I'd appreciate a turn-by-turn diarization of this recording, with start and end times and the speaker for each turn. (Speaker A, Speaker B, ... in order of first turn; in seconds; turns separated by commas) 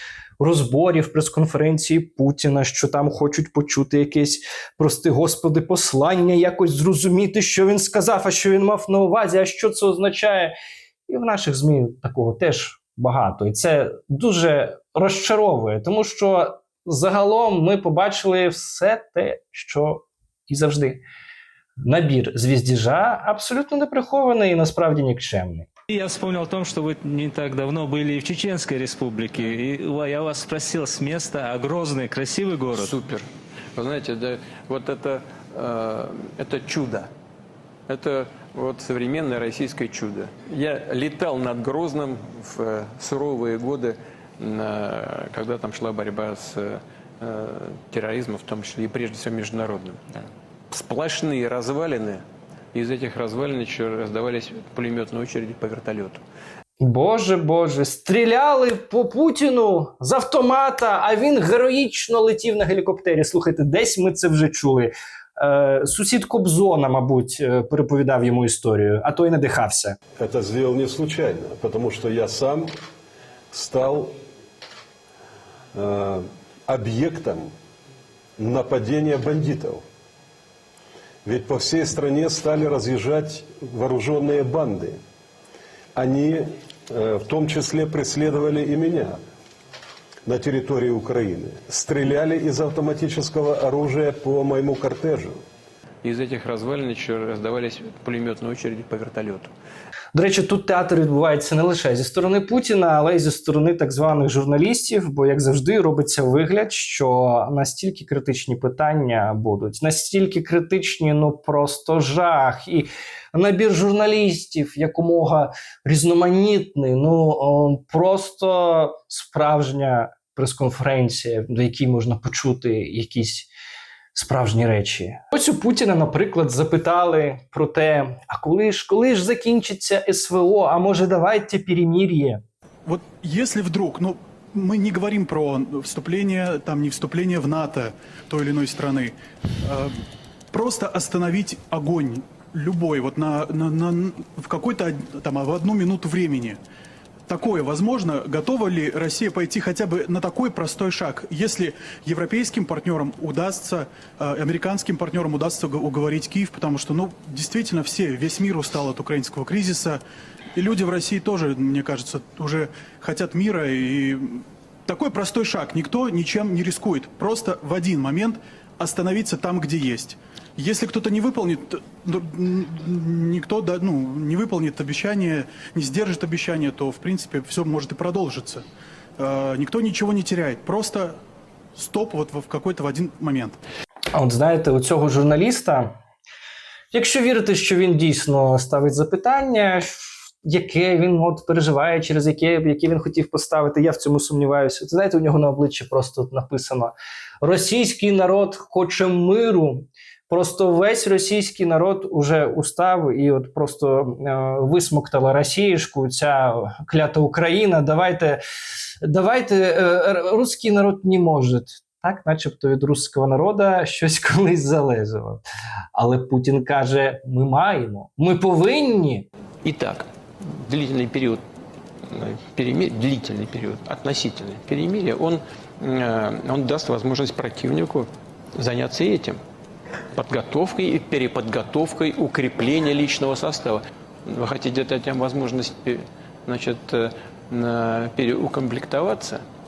Speaker A: 0.4-10.5, Speaker A: 11.1-21.0, Speaker A: 21.8-25.7, Speaker B: 26.0-32.9, Speaker C: 32.8-33.2, Speaker C: 33.8-37.1, Speaker C: 37.9-50.0, Speaker C: 50.7-56.2, Speaker A: 56.8-70.0, Speaker D: 70.2-72.7, Speaker D: 73.5-74.2, Speaker D: 75.7-77.5, Speaker D: 78.4-79.8, Speaker D: 81.2-85.0, Speaker D: 85.9-89.2, Speaker D: 90.2-95.4, Speaker C: 96.0-99.5, Speaker A: 100.1-123.5, Speaker A: 124.1-132.4, Speaker E: 132.8-140.0, Speaker E: 140.5-146.6, Speaker E: 147.3-160.0, Speaker E: 160.5-178.7, Speaker E: 179.2-181.2, Speaker E: 181.8-183.6, Speaker A: 184.1-186.0, Speaker A: 186.9-208.4, Speaker A: 209.0-215.4, Speaker A: 215.9-219.3, Speaker C: 219.6-221.4, Speaker C: 222.1-229.4, Speaker C: 230.1-239.4